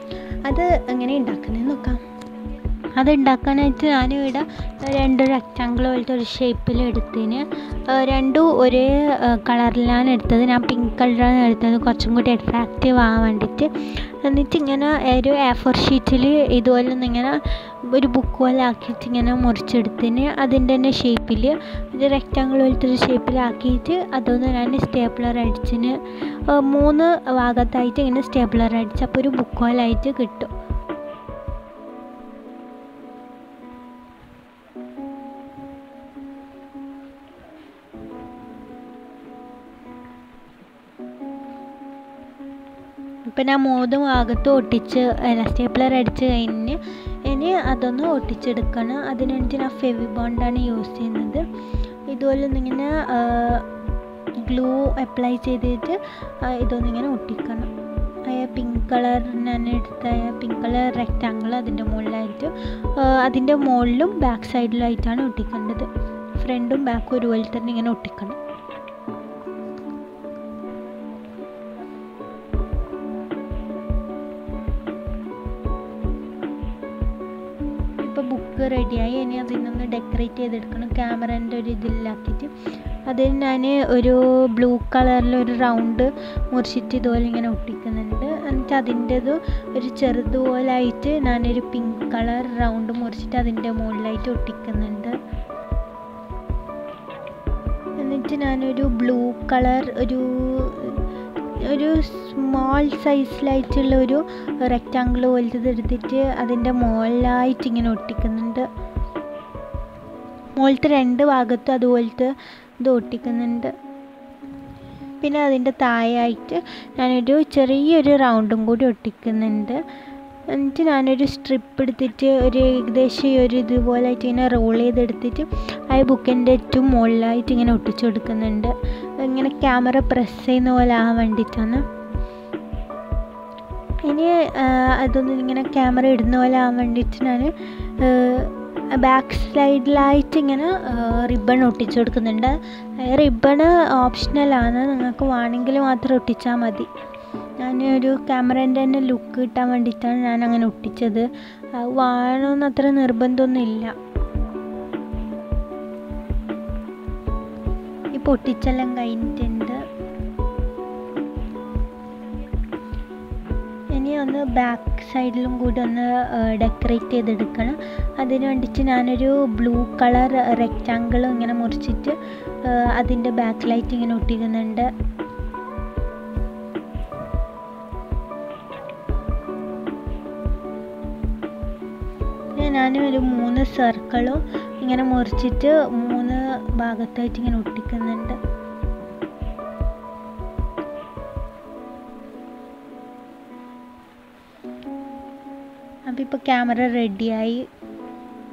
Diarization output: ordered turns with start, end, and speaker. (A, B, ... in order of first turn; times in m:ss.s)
0:00.4-0:02.0 A
0:03.0-0:30.5 A
0:43.3-0:51.4 A
0:52.1-0:53.7 A
0:54.4-0:57.7 A
0:58.3-1:08.4 A
1:18.0-1:22.5 A
1:23.1-1:35.2 A
1:38.0-1:41.0 A
1:41.6-1:48.7 A
1:50.6-1:53.7 A
1:55.2-1:59.8 A
2:00.5-2:11.8 A
2:14.0-2:26.9 A
2:27.6-2:33.9 A
2:38.1-2:39.8 A
2:43.9-2:54.9 A
3:02.6-3:08.4 A
3:16.1-3:17.6 A